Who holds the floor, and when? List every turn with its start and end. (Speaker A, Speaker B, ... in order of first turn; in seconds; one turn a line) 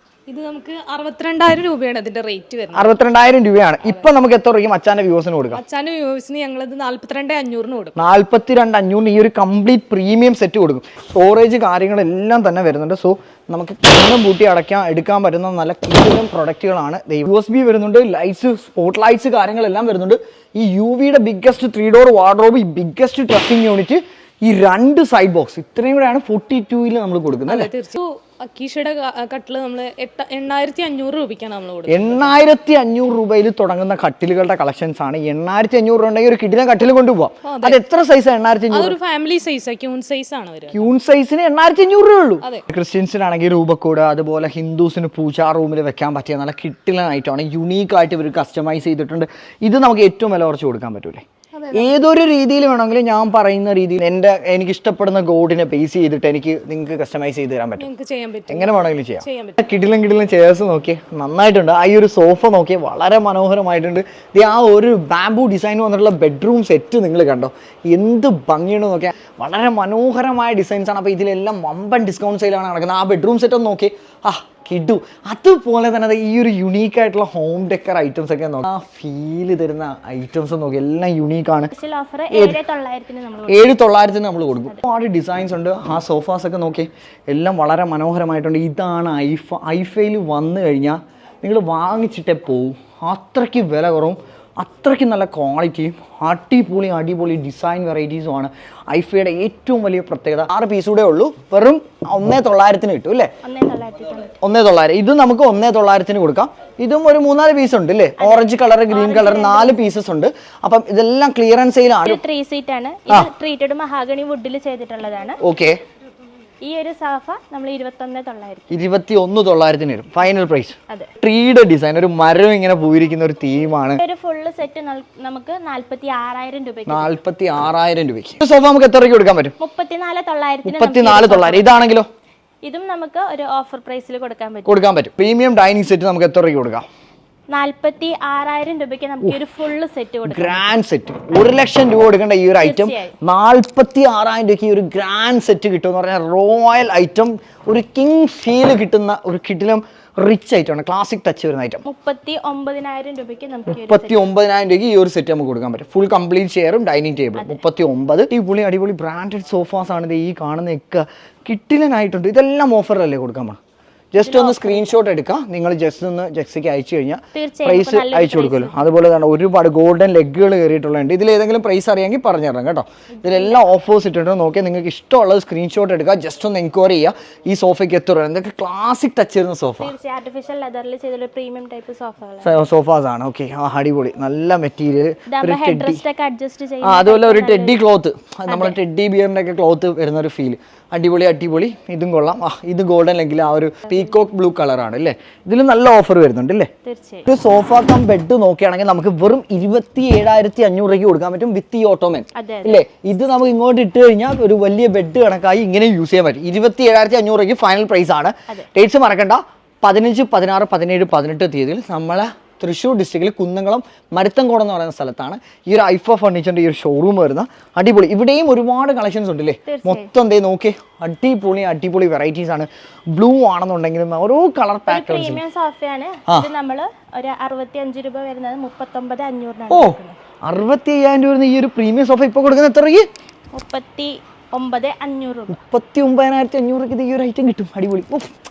Speaker A: 0.3-2.9
Speaker B: 2.7-5.6
Speaker A: 5.5-7.9
Speaker B: 8.0-27.7
Speaker A: 27.5-32.3
Speaker B: 31.9-39.0
Speaker A: 37.4-37.8
Speaker A: 38.7-40.9
Speaker B: 40.7-57.9
Speaker A: 51.5-52.0
Speaker A: 57.8-59.6
Speaker B: 58.5-81.7
Speaker C: 81.7-83.8
Speaker B: 82.3-82.6
Speaker B: 83.5-103.3
Speaker C: 103.4-104.3
Speaker B: 104.4-112.2
Speaker C: 108.2-109.8
Speaker C: 112.0-115.4
Speaker B: 115.4-115.8
Speaker C: 116.6-118.8
Speaker B: 118.7-124.0
Speaker C: 124.0-127.1
Speaker B: 126.9-129.6
Speaker C: 129.6-131.7
Speaker B: 130.6-132.1
Speaker C: 132.6-134.8
Speaker B: 134.7-136.9
Speaker C: 137.5-140.6
Speaker B: 140.2-151.8
Speaker C: 142.6-143.1
Speaker C: 151.8-154.2
Speaker B: 153.7-163.6
Speaker B: 164.1-179.9
Speaker C: 164.2-165.0
Speaker C: 167.3-168.8
Speaker C: 173.2-173.6
Speaker C: 179.8-182.6
Speaker B: 182.4-186.0
Speaker C: 185.3-187.8
Speaker B: 186.8-196.7
Speaker C: 188.5-188.8
Speaker C: 196.8-197.3
Speaker B: 197.3-225.4
Speaker C: 202.3-202.8
Speaker C: 219.7-220.1
Speaker C: 224.9-230.1
Speaker B: 229.7-233.1
Speaker C: 233.5-235.6
Speaker B: 235.5-238.3